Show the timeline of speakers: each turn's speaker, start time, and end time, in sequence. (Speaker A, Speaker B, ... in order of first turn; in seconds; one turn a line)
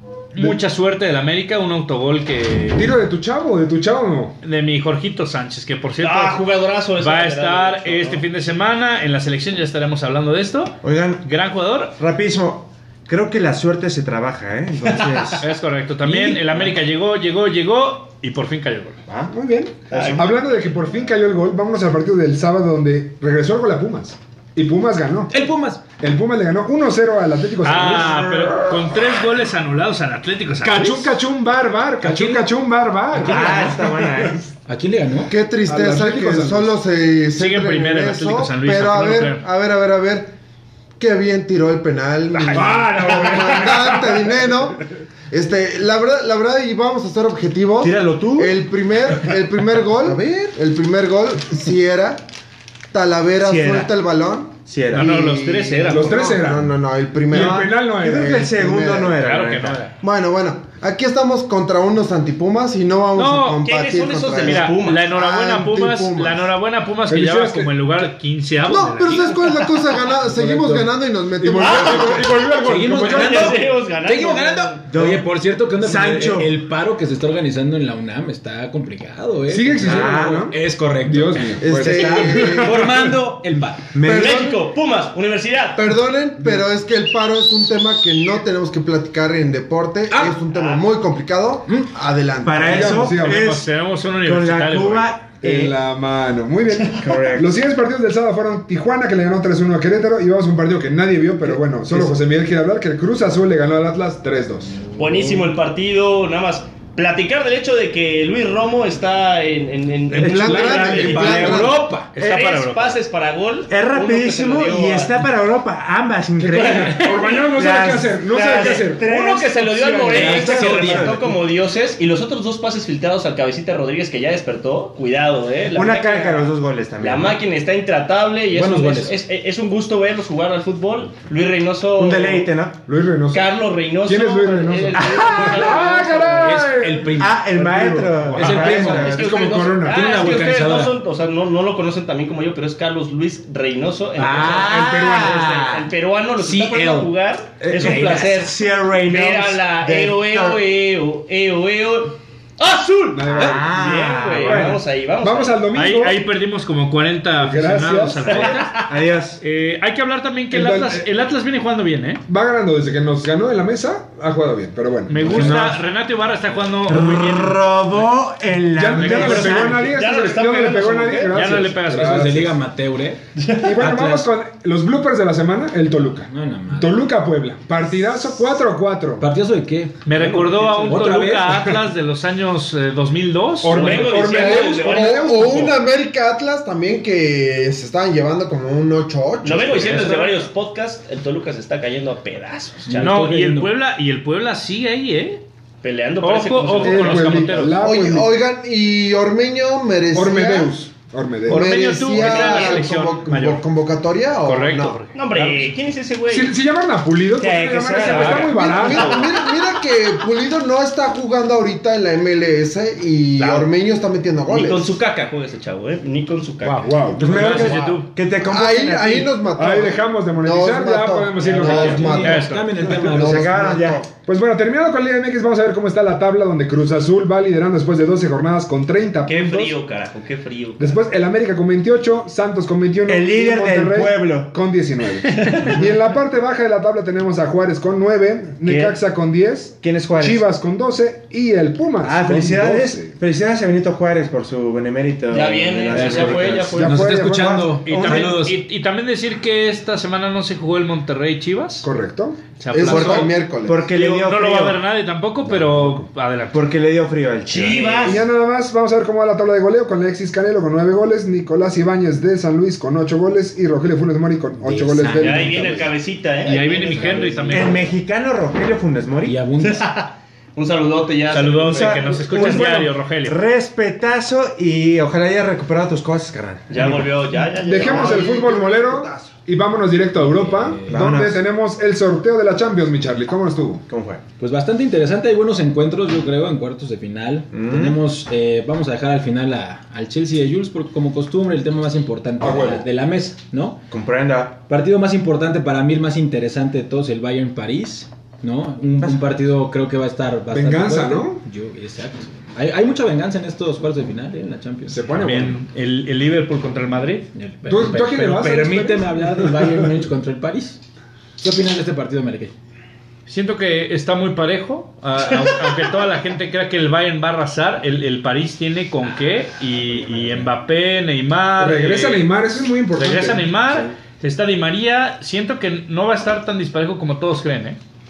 Speaker A: 0.3-2.9
Speaker B: 2.8-4.4
Speaker A: 4.4-6.5
Speaker C: 6.0-8.2
Speaker A: 7.0-12.0
Speaker D: 10.8-11.3
Speaker D: 12.0-15.5
Speaker C: 14.9-15.2
Speaker A: 15.4-19.0
Speaker E: 16.0-16.7
Speaker B: 19.3-25.3
Speaker C: 19.9-20.3
Speaker E: 25.3-25.8
Speaker B: 26.0-28.6
Speaker A: 27.6-31.1
Speaker B: 30.6-34.4
Speaker E: 32.0-32.5
Speaker E: 33.1-34.0
Speaker D: 33.3-34.5
Speaker E: 34.7-35.3
Speaker F: 35.3-40.3
Speaker B: 35.7-36.8
Speaker A: 37.3-39.4
Speaker F: 41.0-52.3
Speaker A: 42.3-42.6
Speaker B: 42.5-44.5
Speaker D: 47.8-48.6
Speaker F: 52.9-59.2
Speaker D: 53.4-53.9
Speaker D: 54.7-55.1
Speaker A: 54.9-56.4
Speaker B: 55.9-56.7
Speaker B: 57.3-58.5
Speaker D: 57.3-59.9
Speaker A: 59.2-60.0
Speaker F: 60.0-66.5
Speaker A: 63.2-63.6
Speaker C: 63.6-65.1
Speaker A: 64.3-69.7
Speaker B: 67.1-68.1
Speaker F: 68.7-72.5
Speaker E: 70.3-70.9
Speaker B: 71.4-73.6
Speaker C: 71.6-74.9
Speaker E: 72.6-83.9
Speaker D: 74.9-76.5
Speaker B: 79.5-83.3
Speaker D: 79.8-80.5
Speaker F: 81.6-83.1
Speaker D: 81.7-82.6
Speaker D: 83.9-84.5
Speaker F: 84.0-84.5
Speaker C: 84.0-85.9
Speaker F: 85.8-93.0
Speaker B: 86.4-86.7
Speaker E: 90.1-90.4
Speaker C: 90.5-90.8
Speaker D: 92.4-93.7
Speaker B: 92.6-93.4
Speaker A: 93.2-95.2
Speaker D: 94.2-95.8
Speaker B: 95.4-104.8
Speaker D: 96.9-97.5
Speaker C: 105.0-111.6
Speaker E: 105.0-105.5
Speaker F: 110.2-111.8
Speaker B: 110.2-111.2
Speaker D: 110.2-112.4
Speaker E: 110.6-112.1
Speaker A: 112.1-113.0
Speaker C: 112.2-115.2
Speaker D: 113.7-121.3
Speaker B: 116.4-119.0
Speaker C: 116.5-117.5
Speaker C: 118.3-132.5
Speaker E: 120.1-121.3
Speaker D: 125.7-127.4
Speaker E: 128.5-129.2
Speaker D: 132.0-132.8
Speaker B: 132.9-137.1
Speaker C: 133.3-136.6
Speaker D: 134.9-135.7
Speaker E: 136.3-139.2
Speaker D: 137.1-139.5
Speaker B: 138.0-140.1
Speaker C: 138.5-148.5
Speaker E: 139.8-141.0
Speaker E: 144.2-144.7
Speaker D: 144.2-145.9
Speaker B: 144.6-145.3
Speaker E: 146.4-148.5
Speaker D: 147.7-150.6
Speaker C: 149.1-155.6
Speaker B: 153.1-153.7
Speaker D: 153.3-154.8
Speaker B: 154.4-156.2
Speaker A: 155.8-158.8
Speaker B: 157.4-158.6
Speaker C: 158.2-159.0
Speaker D: 158.9-159.4
Speaker A: 159.4-162.2
Speaker B: 160.5-161.1
Speaker B: 162.3-165.8
Speaker A: 165.1-168.1
Speaker D: 165.3-165.8
Speaker D: 166.9-169.9
Speaker B: 168.8-172.6
Speaker C: 169.0-171.4
Speaker A: 171.3-172.5
Speaker E: 171.9-173.2
Speaker C: 173.4-173.7
Speaker B: 173.5-179.3
Speaker E: 173.8-174.3
Speaker E: 176.3-176.9
Speaker E: 179.2-180.1
Speaker A: 180.0-184.2
Speaker C: 180.1-181.1
Speaker E: 180.7-181.6
Speaker B: 183.6-185.8
Speaker C: 183.7-185.7
Speaker F: 184.3-190.2
Speaker C: 189.4-193.2
Speaker E: 189.8-190.4
Speaker E: 192.8-193.7
Speaker A: 193.0-195.4
Speaker C: 195.8-197.3
Speaker A: 196.2-197.8
Speaker B: 196.8-198.3
Speaker F: 197.1-200.7
Speaker B: 200.1-202.5
Speaker F: 201.5-205.0
Speaker A: 201.5-203.7
Speaker C: 202.3-202.7
Speaker A: 204.4-205.5
Speaker C: 205.1-206.5
Speaker B: 206.3-209.3
Speaker D: 207.3-208.7
Speaker C: 208.1-209.6
Speaker F: 208.5-214.9
Speaker C: 213.3-213.7
Speaker C: 214.5-217.0
Speaker B: 216.7-217.7
Speaker A: 216.7-218.1
Speaker D: 217.2-219.3
Speaker F: 218.4-224.1
Speaker B: 219.5-223.2
Speaker E: 221.4-223.7
Speaker A: 222.1-222.8
Speaker D: 223.1-224.1
Speaker B: 224.2-229.8
Speaker C: 229.2-231.0
Speaker B: 230.8-243.2
Speaker D: 233.1-234.5
Speaker C: 235.4-235.7
Speaker D: 238.6-239.0
Speaker D: 239.8-240.4
Speaker D: 242.0-248.4
Speaker C: 245.3-247.0
Speaker A: 245.9-246.5
Speaker E: 245.9-248.6
Speaker B: 246.7-247.8
Speaker A: 247.8-251.9
Speaker B: 251.8-252.4
Speaker A: 252.6-256.7
Speaker F: 252.7-253.8
Speaker D: 252.9-254.8
Speaker E: 252.9-253.3
Speaker B: 255.4-256.1
Speaker D: 256.5-258.1
Speaker C: 257.5-258.2
Speaker B: 258.0-265.9
Speaker E: 264.6-265.9
Speaker C: 265.2-267.8
Speaker A: 266.4-267.9
Speaker E: 266.8-267.6
Speaker D: 267.5-269.4
Speaker E: 269.2-269.9
Speaker C: 269.6-272.5
Speaker A: 271.3-273.4
Speaker D: 271.6-277.3
Speaker C: 276.7-278.3
Speaker B: 277.5-283.8
Speaker F: 277.8-279.3
Speaker E: 280.2-281.1
Speaker D: 280.9-281.4
Speaker D: 283.9-284.2
Speaker E: 284.4-293.8
Speaker D: 287.5-288.0
Speaker B: 292.4-292.9
Speaker D: 293.9-294.6
Speaker E: 294.7-305.0
Speaker B: 300.5-301.4
Speaker B: 304.9-305.6
Speaker A: 305.1-307.3
Speaker E: 307.3-310.8
Speaker B: 307.7-310.0
Speaker E: 311.4-312.5
Speaker A: 313.3-322.3
Speaker E: 320.1-320.4
Speaker B: 321.6-323.5
Speaker A: 323.0-327.8